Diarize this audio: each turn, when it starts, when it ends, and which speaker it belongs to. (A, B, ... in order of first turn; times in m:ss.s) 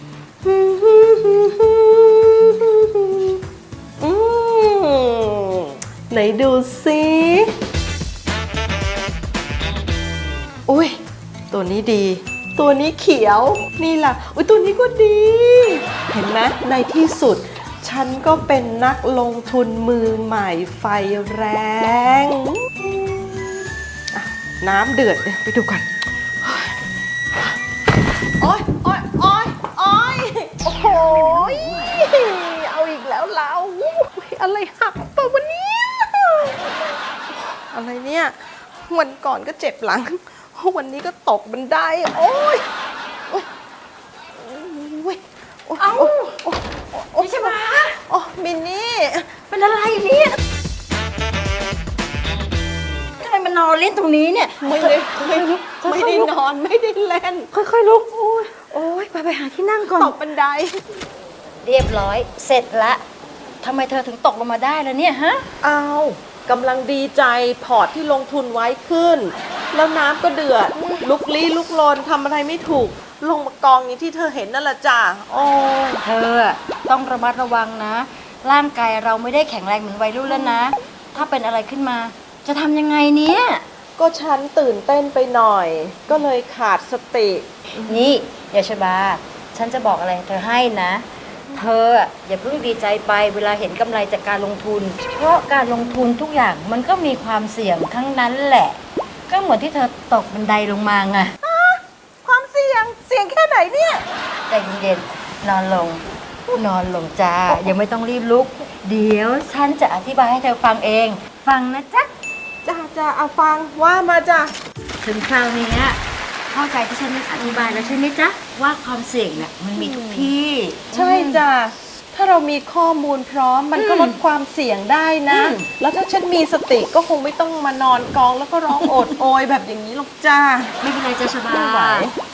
0:00.4-0:03.4 A
0:04.0-0:07.5 A
0:10.7-0:11.0 A
0:11.5-0:25.8 A
0:26.4-0:26.8 A
0:28.4-0:38.4 A
0:38.9-0:42.6 A
0:44.4-0:49.3 A
0:45.8-0:46.4 B
0:47.2-0:48.0 B
0:49.5-0:50.4 B
0:53.2-0:56.3 B
0:54.6-0:57.5 A
0:57.5-1:00.2 B
1:00.0-1:00.8 A
1:01.6-1:03.0 B
1:03.6-1:05.5 B
1:05.6-1:16.0 A
1:10.8-1:11.0 B
1:16.0-1:23.6 B
1:20.3-1:20.6 A
1:24.0-1:28.0 A
1:27.8-1:41.3 B
1:41.4-1:44.0 A
1:44.5-1:46.0 B
1:46.6-1:52.1 B
1:52.6-1:54.6 A
1:55.0-2:01.4 B
1:57.4-1:58.0 A
1:59.8-2:00.3 A
2:00.9-2:10.7 A
2:03.8-2:04.2 B
2:05.3-2:05.7 B
2:08.8-2:09.1 B
2:10.8-2:12.1 B
2:11.5-2:12.2 A